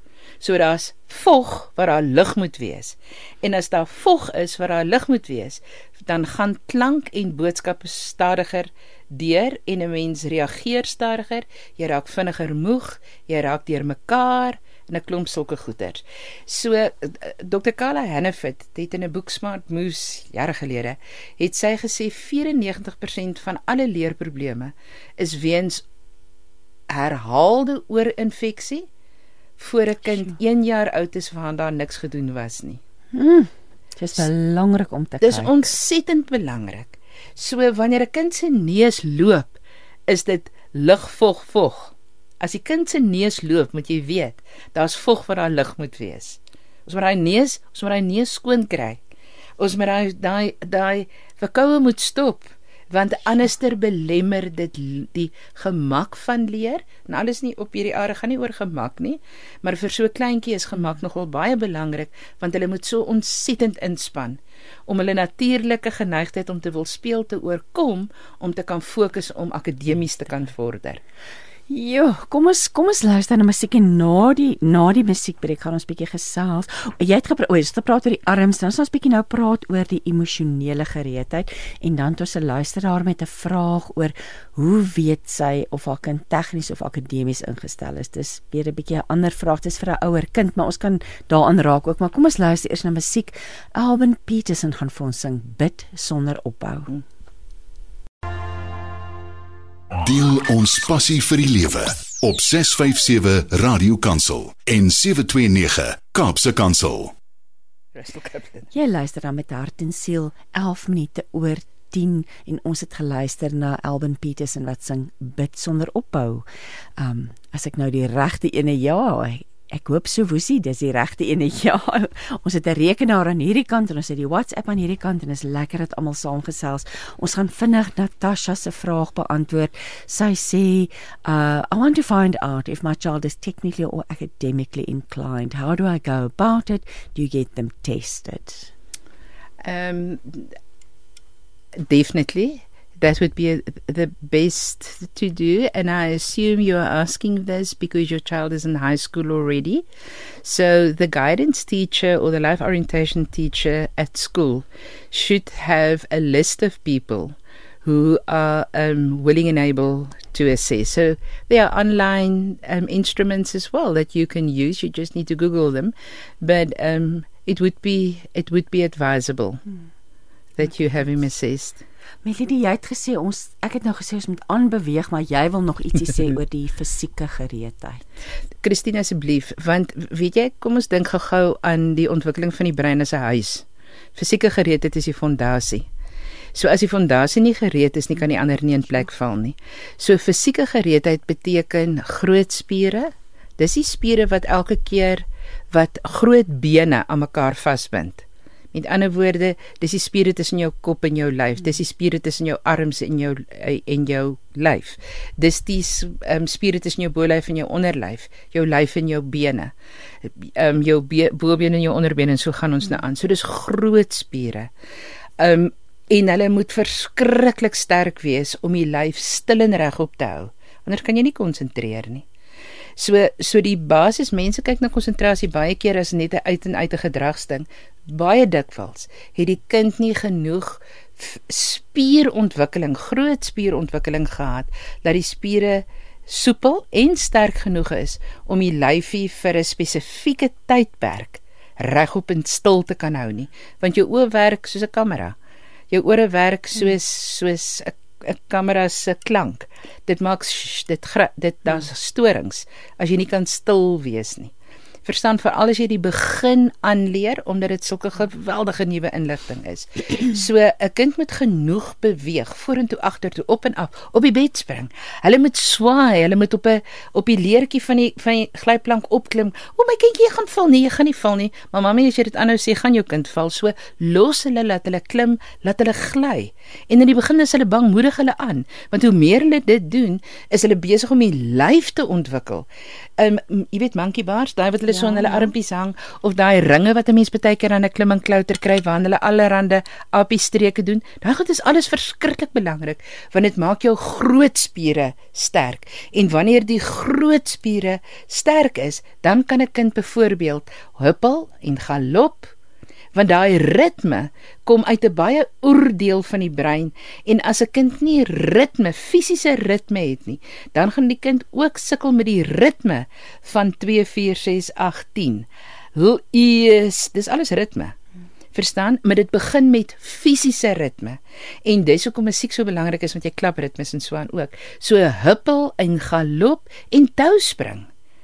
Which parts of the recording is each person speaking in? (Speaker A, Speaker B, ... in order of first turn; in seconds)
Speaker A: 0.4-25.8, 26.9-28.9, 29.6-32.8, 35.2-39.5, 40.1-49.0, 49.6-71.0, 107.9-108.7, 139.6-140.5, 141.8-149.8, 150.4-169.6, 170.6-171.8, 178.6-183.6, 184.2-185.8, 186.5-209.7, 210.2-214.7, 215.4-222.2, 223.0-245.3, 245.9-254.5, 255.0-282.7, 283.2-302.5, 303.1-317.9, 318.5-327.9
Speaker B: 33.1-35.7, 71.7-97.0, 108.7-116.4, 117.0-138.7, 172.2-178.0, 284.9-285.5
Speaker C: 99.9-107.1